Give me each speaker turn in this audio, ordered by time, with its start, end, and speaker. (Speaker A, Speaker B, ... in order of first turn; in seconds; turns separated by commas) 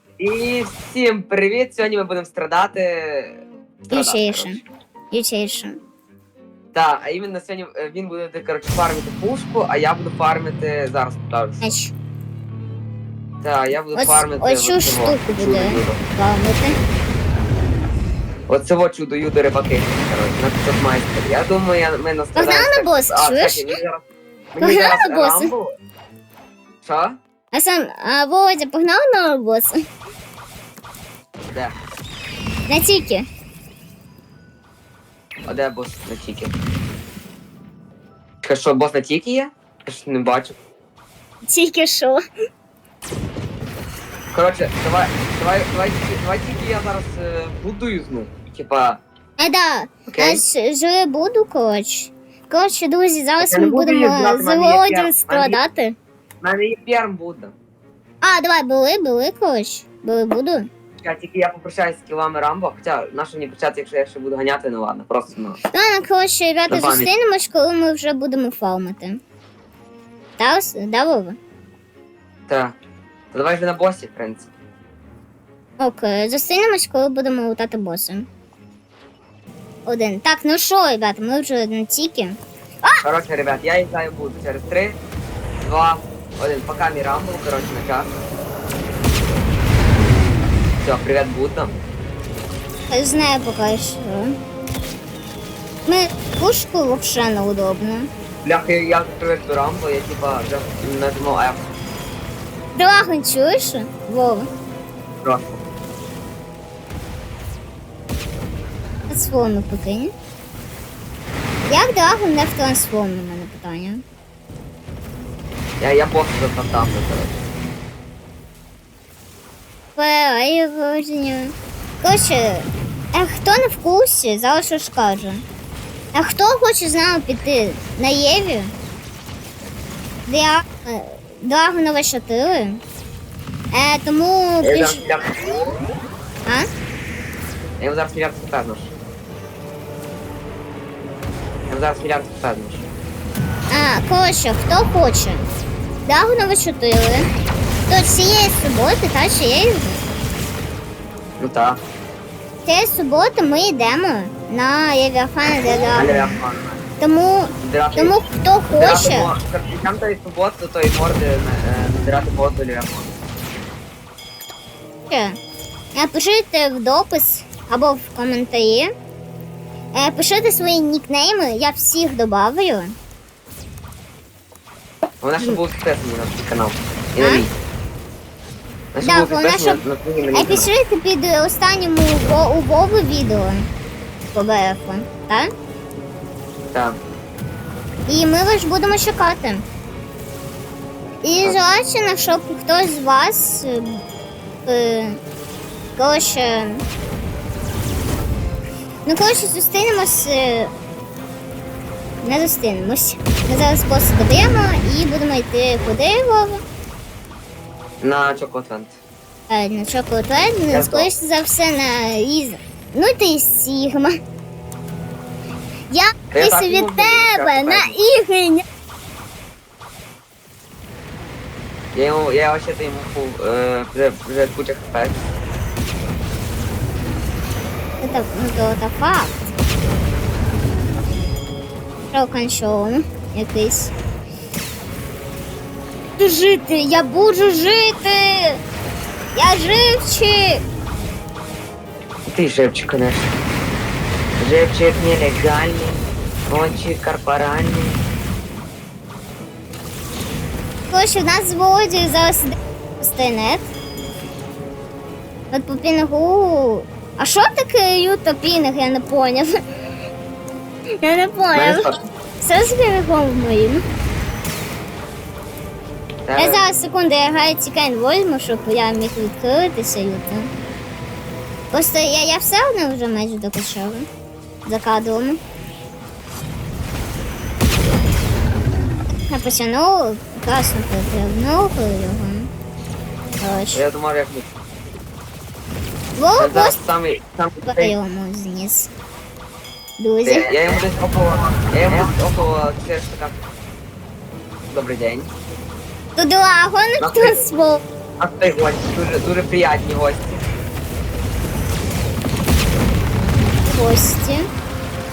Speaker A: 0.2-4.6, Speaker B: 3.9-5.8, Speaker A: 6.7-11.7, Speaker B: 11.6-11.9, Speaker A: 13.4-16.0, Speaker B: 13.9-16.8, Speaker A: 18.5-24.0, Speaker B: 22.3-23.8, Speaker A: 24.5-25.7, Speaker B: 24.6-25.5, Speaker A: 26.8-27.2, Speaker B: 27.5-29.8, Speaker B: 32.7-33.2, Speaker A: 35.5-36.5, Speaker A: 38.4-40.6, Speaker B: 41.4-42.2, Speaker A: 44.3-49.0, Speaker B: 49.4-56.0, Speaker A: 50.1-50.4, Speaker A: 53.4-55.6, Speaker A: 56.4-57.5, Speaker B: 58.2-60.7, Speaker A: 61.0-65.6, Speaker B: 65.7-69.2, Speaker A: 66.7-67.1, Speaker B: 70.4-71.4, Speaker A: 72.5-72.8, Speaker A: 73.3-74.5, Speaker B: 75.8-78.3, Speaker B: 79.8-83.0, Speaker A: 83.0-85.0, Speaker A: 85.6-88.1, Speaker A: 90.8-91.8, Speaker B: 92.9-94.3, Speaker B: 95.8-98.1, Speaker A: 98.4-101.7, Speaker B: 102.7-104.5, Speaker A: 105.2-105.6, Speaker B: 109.1-110.1, Speaker B: 111.7-114.0, Speaker A: 115.8-117.4, Speaker B: 120.0-125.4, Speaker B: 126.1-128.7, Speaker B: 130.3-132.8, Speaker B: 133.7-135.0, Speaker A: 134.6-135.3, Speaker A: 137.8-138.9, Speaker A: 141.7-142.9, Speaker B: 143.7-145.5, Speaker B: 146.1-147.2, Speaker B: 147.9-150.0, Speaker A: 151.4-151.8, Speaker B: 152.6-156.4, Speaker A: 155.9-156.8, Speaker B: 157.0-159.3, Speaker A: 157.6-158.2, Speaker A: 158.8-163.1, Speaker B: 165.1-165.4, Speaker B: 165.9-168.9, Speaker B: 169.9-172.9, Speaker A: 175.2-177.5, Speaker B: 177.2-177.4, Speaker A: 178.9-180.7, Speaker B: 179.0-179.8, Speaker B: 180.3-183.7, Speaker B: 184.3-185.5, Speaker A: 186.7-187.0, Speaker B: 188.1-189.6, Speaker B: 191.2-194.0, Speaker B: 194.7-195.2, Speaker B: 195.9-196.8, Speaker B: 199.1-200.7, Speaker B: 202.2-206.6, Speaker A: 208.0-209.0, Speaker B: 209.5-214.1, Speaker A: 210.7-211.1, Speaker B: 215.9-218.6, Speaker A: 216.3-217.9, Speaker A: 221.9-225.3, Speaker B: 228.0-229.5, Speaker B: 232.1-233.9, Speaker B: 236.2-238.6, Speaker B: 239.3-240.6, Speaker A: 242.2-243.3, Speaker A: 244.4-248.0, Speaker B: 250.9-253.7, Speaker B: 255.5-259.5, Speaker B: 261.0-261.9, Speaker A: 261.5-262.0, Speaker B: 262.4-263.8, Speaker A: 266.3-266.6, Speaker B: 266.4-270.5, Speaker B: 271.7-274.1, Speaker B: 274.6-275.4, Speaker B: 279.2-282.5, Speaker B: 283.4-283.8, Speaker A: 283.7-284.5, Speaker B: 286.1-286.8, Speaker A: 286.4-287.9, Speaker B: 287.6-288.9, Speaker B: 290.0-290.5, Speaker A: 290.2-293.4, Speaker A: 294.7-295.3, Speaker B: 296.1-297.8, Speaker A: 297.0-297.4, Speaker A: 298.2-300.5, Speaker B: 303.7-304.5